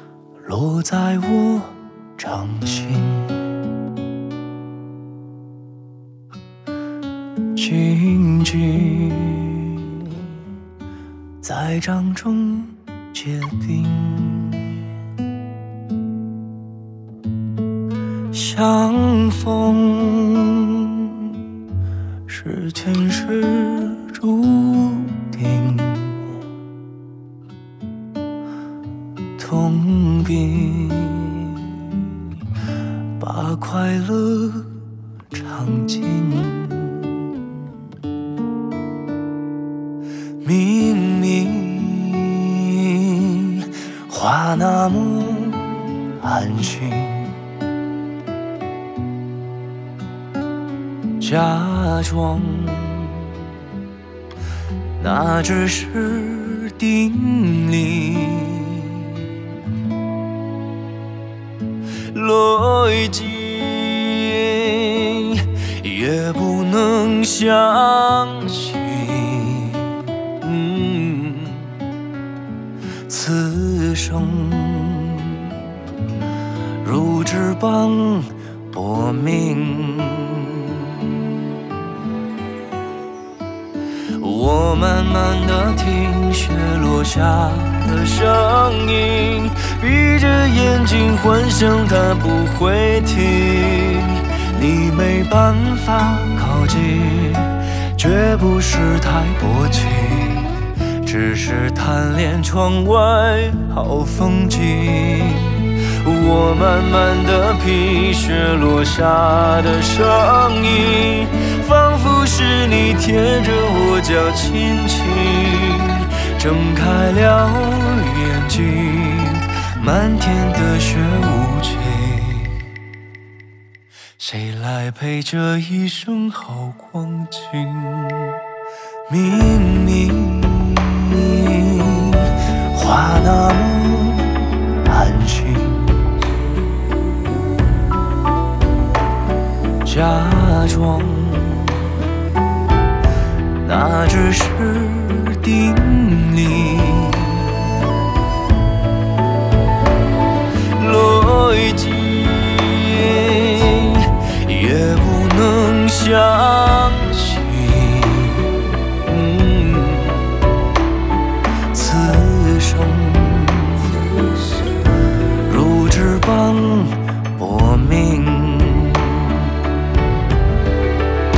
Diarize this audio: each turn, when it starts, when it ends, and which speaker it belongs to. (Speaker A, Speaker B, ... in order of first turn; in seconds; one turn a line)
Speaker A: 0.5-3.4
Speaker A: 7.5-10.3
Speaker A: 11.4-14.9
Speaker A: 18.3-21.4
Speaker A: 22.3-26.4
Speaker A: 29.4-32.2
Speaker A: 33.2-34.7
Speaker A: 35.3-37.3
Speaker A: 40.4-47.4
Speaker A: 51.2-53.5
Speaker A: 55.0-59.3
Speaker A: 62.1-71.8
Speaker A: 73.1-75.7
Speaker A: 76.8-81.5
Speaker A: 84.2-122.7
Speaker A: 124.2-128.4
Speaker A: 129.1-136.2
Speaker A: 139.8-142.1
Speaker A: 143.6-147.9
Speaker A: 150.8-160.4
Speaker A: 161.7-164.7
Speaker A: 165.5-169.8